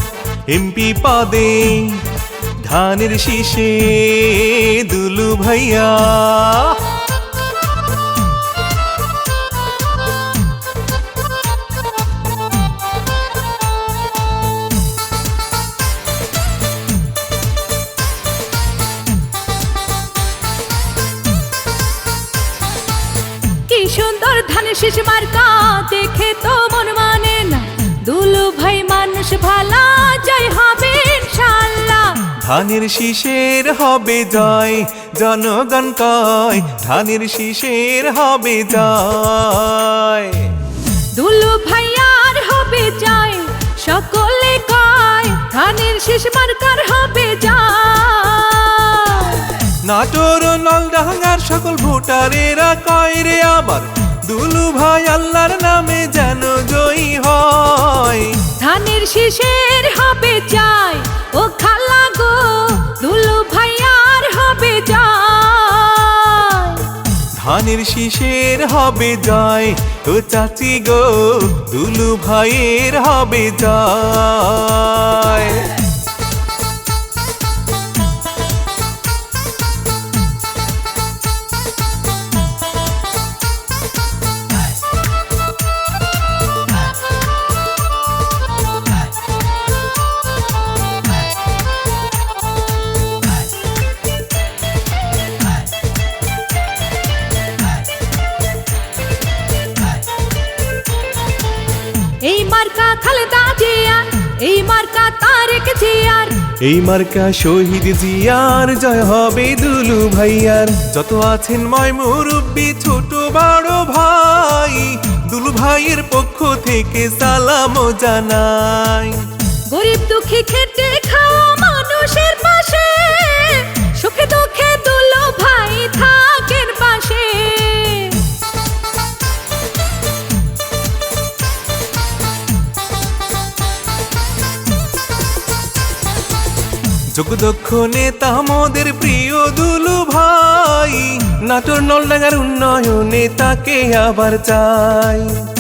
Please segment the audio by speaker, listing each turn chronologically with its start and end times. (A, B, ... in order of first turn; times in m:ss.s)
0:00.5-0:02.0 A
0:02.6-0:06.8 A
0:23.7-0:32.3 B
0:32.4-0:40.6 A
0:41.1-0:49.6 B
0:49.8-0:58.4 A
0:58.6-1:06.9 B
1:07.4-1:15.8 A
1:42.2-1:46.5 B
1:46.6-1:59.2 A
1:59.7-2:08.3 B
2:17.1-2:25.4 A